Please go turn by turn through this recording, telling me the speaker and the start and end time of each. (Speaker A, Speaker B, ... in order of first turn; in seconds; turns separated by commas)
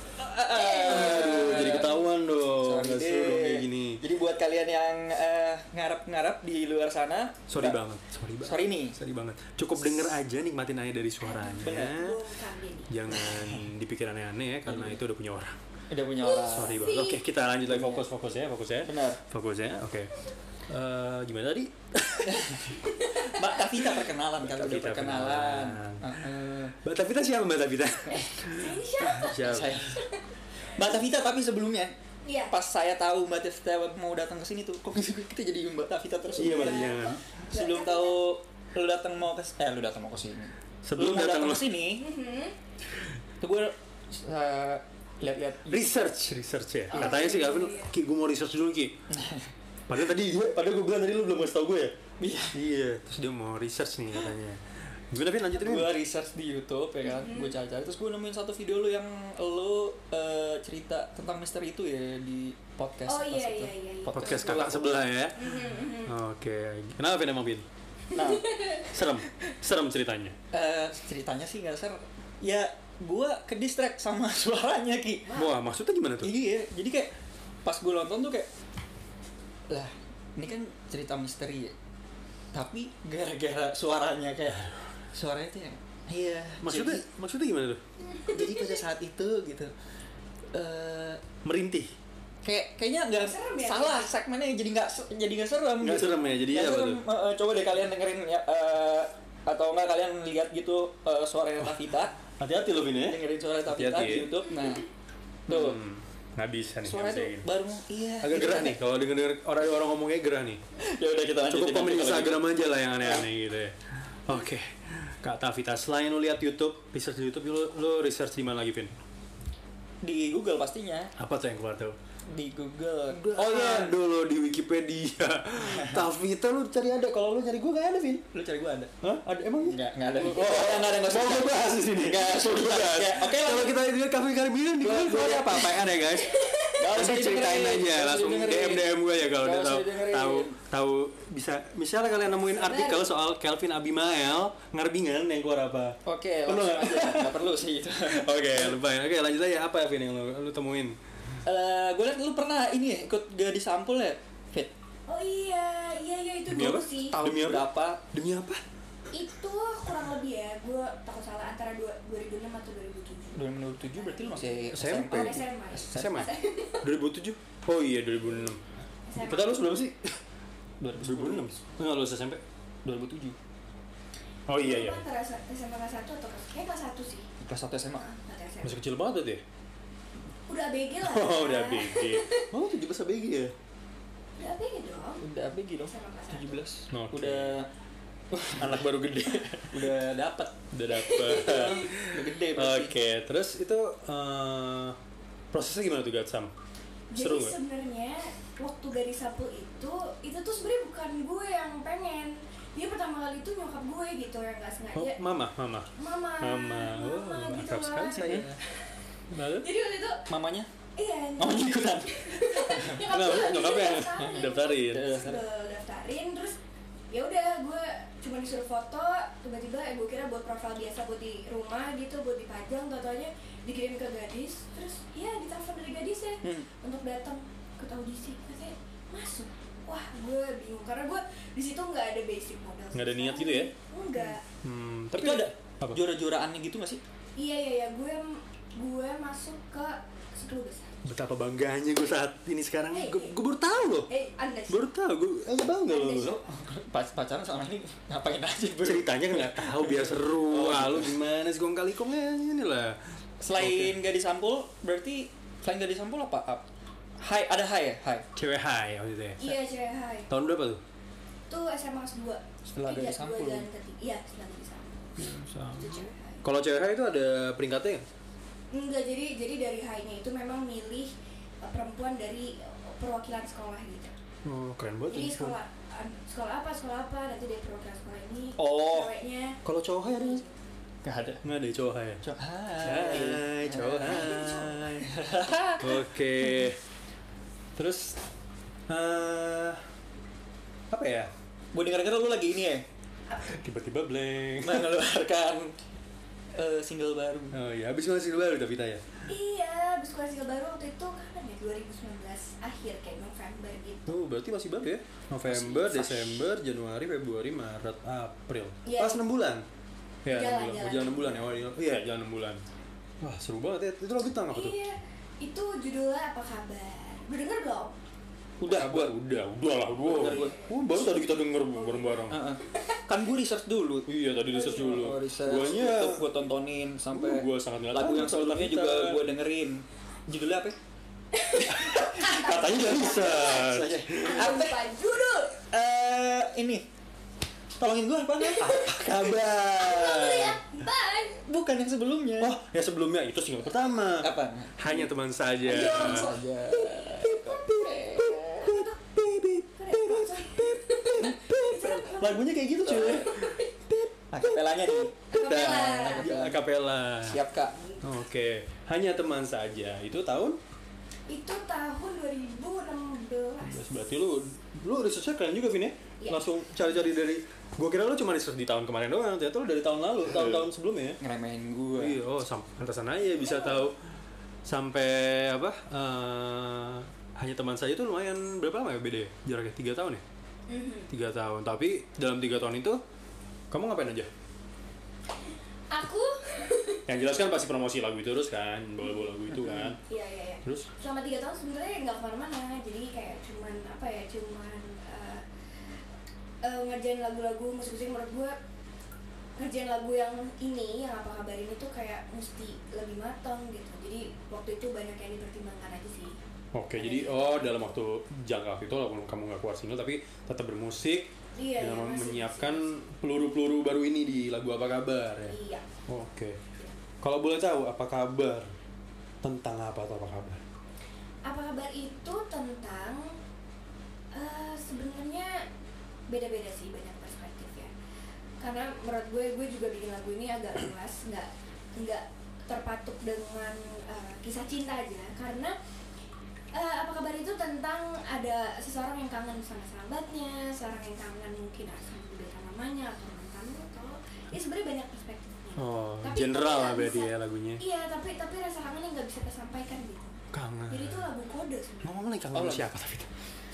Speaker A: 0.2-7.8, Speaker B: 0.5-2.0, Speaker C: 0.8-4.0, Speaker C: 7.5-12.3, Speaker A: 8.4-8.9, Speaker B: 11.2-12.9, Speaker A: 11.6-11.9, Speaker C: 12.9-15.6, Speaker A: 13.1-13.6, Speaker A: 14.7-14.9, Speaker A: 15.9-16.8, Speaker B: 16.2-17.2, Speaker C: 16.4-20.1, Speaker A: 17.6-18.1, Speaker A: 18.8-19.2, Speaker C: 20.7-22.7, Speaker A: 22.2-26.8, Speaker B: 22.9-23.6, Speaker C: 24.4-26.2, Speaker C: 26.8-30.0, Speaker B: 28.5-30.2, Speaker A: 29.1-30.0, Speaker A: 30.7-31.9, Speaker B: 32.2-32.5, Speaker A: 32.5-42.0, Speaker B: 36.3-38.2, Speaker C: 36.4-37.2, Speaker C: 40.8-41.7, Speaker B: 42.0-42.5, Speaker A: 43.4-46.0, Speaker C: 45.7-49.0, Speaker B: 46.9-47.9, Speaker A: 49.1-49.5, Speaker C: 49.9-52.0, Speaker A: 52.2-52.6, Speaker C: 52.5-55.9, Speaker A: 55.5-65.0, Speaker B: 57.0-57.5, Speaker B: 63.1-64.8, Speaker C: 64.1-67.7, Speaker B: 65.3-66.1, Speaker B: 68.1-69.0, Speaker A: 68.1-68.5, Speaker C: 68.9-70.3, Speaker A: 70.5-75.3, Speaker B: 75.3-75.5, Speaker C: 75.3-76.3, Speaker A: 76.2-77.1, Speaker A: 77.6-78.5, Speaker A: 79.7-81.7, Speaker A: 82.5-87.0, Speaker C: 86.6-87.8, Speaker B: 88.1-88.8, Speaker A: 88.3-89.7, Speaker A: 90.5-91.2, Speaker C: 91.4-91.9, Speaker A: 92.4-102.1, Speaker B: 93.2-94.1, Speaker C: 95.8-97.0, Speaker C: 102.4-104.3, Speaker A: 103.0-104.9, Speaker A: 105.5-105.8, Speaker C: 105.5-107.5, Speaker A: 106.8-108.8, Speaker C: 108.2-110.6, Speaker A: 110.8-112.5, Speaker C: 111.5-118.9, Speaker A: 120.0-121.1, Speaker C: 121.2-122.0, Speaker A: 122.3-123.9, Speaker C: 123.1-128.2, Speaker A: 125.6-126.0, Speaker A: 128.3-128.9, Speaker C: 129.0-147.3, Speaker A: 129.6-133.8, Speaker A: 134.8-136.0, Speaker A: 136.8-140.6, Speaker B: 142.4-143.1, Speaker A: 146.0-148.6, Speaker C: 148.1-150.9, Speaker A: 151.4-154.7, Speaker B: 155.1-157.2, Speaker C: 156.5-158.6, Speaker A: 157.0-158.0, Speaker B: 159.1-166.9, Speaker A: 163.3-166.3, Speaker C: 164.7-168.6, Speaker B: 169.1-169.8, Speaker C: 169.2-170.2, Speaker A: 170.8-171.5, Speaker C: 171.0-172.4, Speaker A: 172.9-173.3, Speaker C: 174.5-175.0, Speaker B: 174.6-177.3, Speaker A: 177.4-178.1, Speaker B: 178.0-178.8, Speaker C: 178.6-179.4, Speaker B: 180.5-182.5, Speaker C: 181.0-183.5, Speaker B: 184.4-185.2, Speaker A: 185.2-187.7, Speaker B: 185.8-186.6, Speaker C: 186.9-187.6, Speaker A: 188.3-188.8, Speaker C: 188.5-195.0, Speaker A: 189.6-190.5, Speaker B: 190.9-191.9, Speaker A: 191.3-192.9, Speaker C: 195.5-196.5, Speaker B: 197.1-205.2, Speaker C: 197.1-197.6, Speaker C: 204.9-208.4, Speaker B: 205.9-208.7, Speaker A: 208.2-208.6, Speaker C: 209.3-209.7, Speaker B: 209.5-210.2, Speaker A: 210.3-210.7, Speaker B: 210.9-216.6, Speaker A: 211.4-213.0, Speaker C: 213.1-215.1, Speaker A: 214.8-215.4, Speaker B: 217.1-234.4, Speaker A: 226.4-226.7, Speaker C: 232.9-233.7, Speaker C: 234.6-236.0, Speaker A: 235.2-237.0, Speaker B: 237.4-241.0, Speaker C: 241.0-244.1, Speaker B: 242.9-243.4, Speaker B: 244.1-244.9, Speaker C: 244.7-246.3, Speaker B: 245.8-246.4, Speaker A: 246.2-251.2, Speaker C: 248.8-253.0, Speaker A: 253.4-256.6, Speaker C: 253.5-254.0, Speaker A: 257.2-258.2, Speaker C: 258.3-259.6, Speaker B: 259.4-260.3, Speaker C: 260.3-260.8, Speaker B: 261.5-266.4, Speaker A: 262.7-263.7, Speaker C: 265.2-268.0, Speaker B: 268.7-274.1, Speaker C: 274.4-275.6, Speaker B: 275.1-280.6, Speaker A: 278.6-279.1, Speaker C: 279.6-280.4, Speaker A: 281.0-281.4, Speaker C: 281.4-282.2, Speaker A: 282.2-286.7, Speaker C: 282.8-284.7, Speaker B: 284.0-284.8, Speaker C: 285.8-286.8, Speaker A: 287.8-288.1, Speaker C: 288.9-289.8, Speaker C: 290.9-291.3, Speaker A: 291.7-292.9, Speaker B: 293.3-293.6, Speaker C: 293.5-294.9, Speaker A: 294.6-295.7, Speaker A: 296.5-297.6, Speaker C: 297.5-299.0, Speaker B: 299.3-304.2, Speaker C: 304.1-309.6, Speaker B: 305.5-306.4, Speaker B: 308.8-309.2, Speaker C: 310.2-312.6, Speaker B: 310.3-311.6, Speaker C: 313.2-314.8, Speaker B: 314.5-317.9, Speaker C: 318.6-322.4, Speaker A: 318.6-319.1, Speaker A: 320.1-320.6, Speaker B: 320.1-321.1, Speaker B: 321.7-322.8, Speaker A: 322.3-330.8, Speaker C: 324.1-326.2, Speaker B: 324.6-325.0, Speaker C: 327.1-329.2, Speaker B: 331.3-335.6, Speaker A: 331.5-334.8, Speaker C: 331.7-334.6, Speaker A: 335.7-336.8, Speaker A: 337.8-339.2, Speaker C: 338.6-340.6, Speaker B: 338.6-338.9, Speaker B: 339.8-341.4, Speaker A: 341.4-342.6, Speaker C: 342.4-346.3, Speaker A: 344.2-345.1, Speaker B: 345.6-346.4, Speaker A: 345.6-348.6, Speaker C: 347.0-357.4, Speaker B: 348.5-349.0, Speaker B: 349.8-353.7, Speaker A: 352.8-353.4, Speaker A: 354.3-356.6, Speaker B: 355.3-356.3, Speaker A: 357.3-357.7, Speaker C: 358.0-360.6, Speaker B: 361.3-363.8, Speaker C: 363.6-371.2, Speaker B: 366.2-366.4, Speaker A: 371.2-372.2, Speaker C: 371.9-373.9, Speaker B: 373.3-373.9, Speaker C: 374.6-380.2, Speaker B: 380.7-381.1, Speaker C: 381.1-383.0, Speaker C: 383.7-384.3, Speaker B: 385.9-387.0, Speaker C: 387.1-390.0, Speaker B: 390.1-395.4, Speaker B: 396.6-398.5, Speaker B: 399.6-406.4, Speaker C: 406.7-416.6, Speaker B: 407.0-407.8, Speaker B: 411.6-412.9, Speaker B: 415.5-415.9, Speaker C: 417.2-418.7, Speaker C: 419.4-420.6, Speaker B: 421.4-423.3, Speaker B: 424.3-425.5, Speaker B: 426.3-427.9, Speaker B: 428.6-435.7, Speaker B: 436.7-452.2, Speaker C: 445.8-447.8, Speaker C: 450.5-451.3, Speaker C: 452.0-453.3, Speaker A: 452.5-452.9